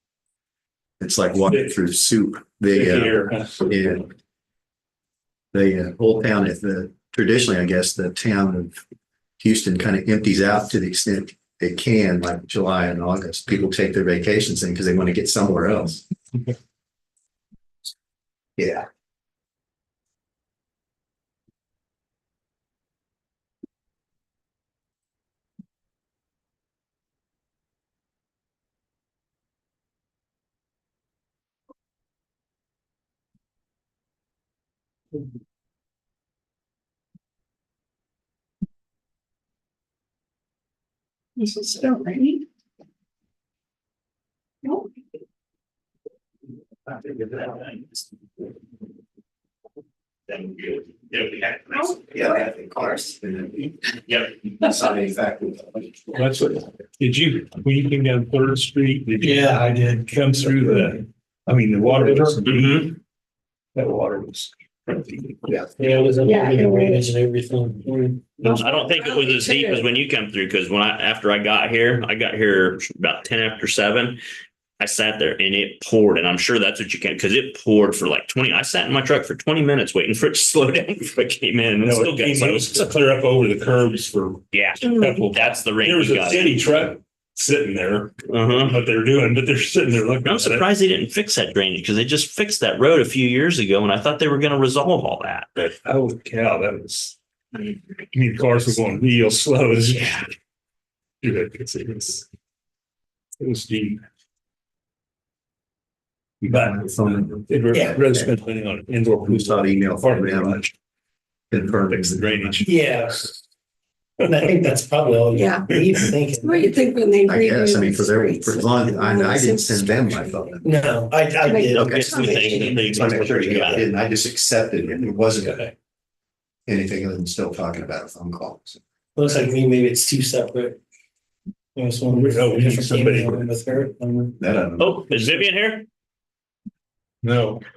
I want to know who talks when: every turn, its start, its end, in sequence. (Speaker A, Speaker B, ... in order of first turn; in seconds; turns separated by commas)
Speaker A: 1.0-4.1, Speaker B: 1.4-1.7, Speaker B: 2.7-3.7, Speaker A: 5.5-8.7, Speaker A: 9.4-16.0, Speaker A: 18.6-18.8, Speaker C: 41.4-42.4, Speaker D: 46.9-48.0, Speaker D: 50.3-51.9, Speaker A: 51.9-53.8, Speaker C: 52.2-52.4, Speaker A: 54.4-56.1, Speaker B: 56.1-63.0, Speaker E: 59.2-60.8, Speaker E: 61.8-62.4, Speaker D: 62.5-62.9, Speaker B: 63.7-65.5, Speaker E: 65.7-68.3, Speaker C: 66.2-67.1, Speaker D: 68.4-74.2, Speaker C: 68.4-70.0, Speaker D: 74.8-82.9, Speaker B: 81.8-90.7, Speaker D: 84.5-86.6, Speaker D: 88.3-88.8, Speaker D: 90.2-95.5, Speaker B: 95.5-100.3, Speaker B: 101.2-102.3, Speaker B: 103.4-104.0, Speaker B: 106.4-110.7, Speaker A: 106.4-107.5, Speaker E: 107.7-108.0, Speaker A: 109.2-110.6, Speaker A: 111.5-112.6, Speaker B: 111.5-113.2, Speaker E: 112.6-113.3, Speaker E: 114.2-116.7, Speaker C: 115.3-115.7, Speaker B: 115.8-116.1, Speaker C: 116.3-120.4, Speaker A: 117.2-120.9, Speaker E: 120.6-122.9, Speaker C: 121.4-122.5, Speaker D: 121.7-123.9, Speaker A: 121.9-125.6, Speaker E: 125.4-125.7, Speaker A: 126.7-128.8, Speaker E: 129.2-130.8, Speaker E: 131.7-134.3, Speaker B: 132.1-133.4, Speaker A: 134.4-135.1, Speaker D: 134.8-135.8, Speaker B: 135.1-135.4, Speaker B: 137.2-137.6